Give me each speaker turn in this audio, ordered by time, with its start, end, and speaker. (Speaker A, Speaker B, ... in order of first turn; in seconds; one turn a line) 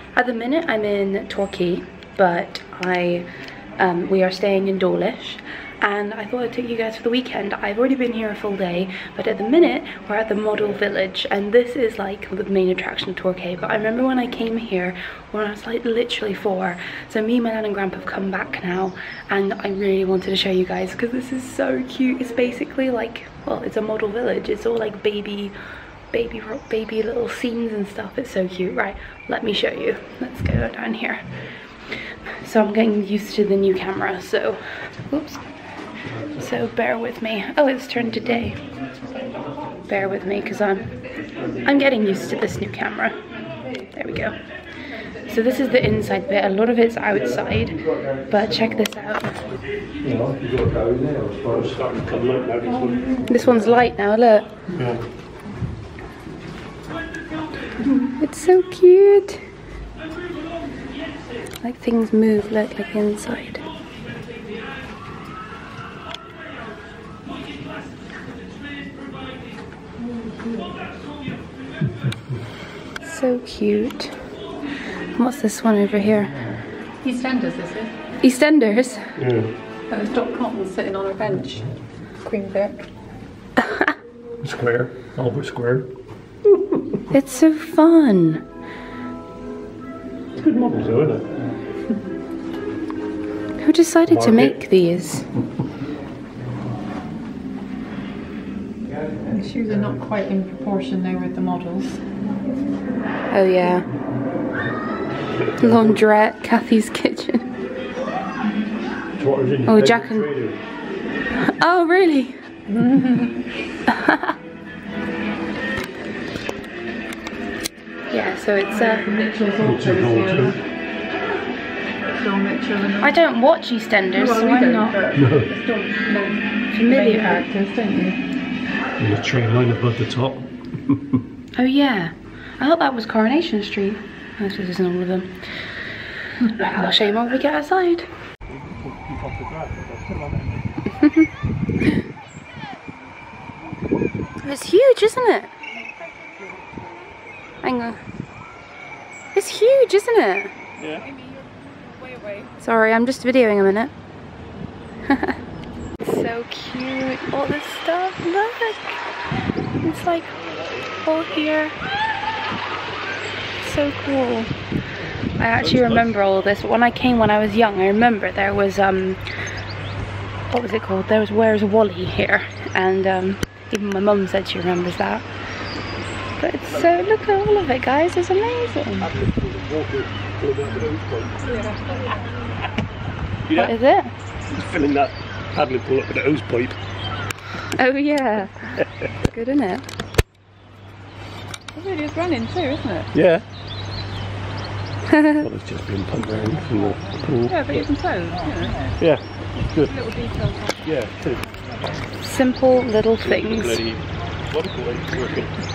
Speaker A: 0.1-25.5
Speaker A: 26.1-31.2
Speaker A: 32.4-35.5
Speaker A: 36.3-38.6
Speaker A: 39.9-40.9
Speaker A: 41.6-43.2
Speaker A: 43.9-44.4
Speaker A: 45.3-49.4
Speaker B: 50.0-53.8
Speaker A: 53.3-54.5
Speaker B: 54.7-55.0
Speaker A: 58.2-59.4
Speaker A: 61.6-63.6
Speaker A: 73.0-74.2
Speaker A: 75.2-76.4
Speaker C: 77.0-78.0
Speaker A: 78.2-79.0
Speaker B: 79.2-79.5
Speaker C: 79.9-82.9
Speaker B: 84.4-85.9
Speaker A: 87.1-88.4
Speaker B: 90.3-91.3
Speaker A: 93.6-95.3
Speaker B: 94.1-94.6
Speaker C: 99.3-102.0
Speaker A: 103.3-103.8
Speaker B: 105.5-106.0
Speaker A: 105.6-107.5
Speaker B: 109.2-110.6
Speaker A: 109.7-110.4
Speaker A: 111.4-112.4
Speaker C: 112.7-113.3
Speaker A: 113.9-114.3
Speaker A: 118.1-119.1
Speaker C: 118.7-120.6
Speaker B: 119.6-120.6
Speaker C: 122.1-123.2
Speaker A: 123.0-125.0
Speaker C: 124.1-128.2
Speaker B: 125.2-125.5
Speaker A: 126.7-127.5
Speaker B: 129.0-131.2
Speaker A: 131.6-135.4
Speaker A: 136.6-138.1
Speaker B: 138.5-140.7
Speaker A: 144.4-145.5
Speaker A: 147.6-148.0
Speaker A: 149.3-150.6
Speaker B: 150.8-151.1
Speaker A: 152.6-153.9
Speaker A: 155.1-155.3
Speaker A: 156.0-158.9
Speaker A: 159.8-160.4
Speaker A: 161.0-161.8
Speaker A: 163.6-164.5
Speaker A: 165.4-169.2
Speaker A: 170.5-175.2
Speaker A: 176.4-179.1
Speaker B: 179.0-181.5
Speaker B: 183.5-183.7
Speaker A: 183.6-184.1
Speaker B: 184.5-186.8
Speaker A: 187.8-188.7
Speaker A: 189.3-189.9
Speaker C: 191.8-193.1
Speaker B: 193.1-193.4
Speaker A: 195.1-195.4
Speaker B: 195.4-197.8
Speaker C: 197.5-198.9
Speaker B: 199.0-199.9
Speaker C: 199.9-200.7
Speaker B: 200.8-201.4
Speaker A: 202.2-203.8
Speaker B: 203.2-205.5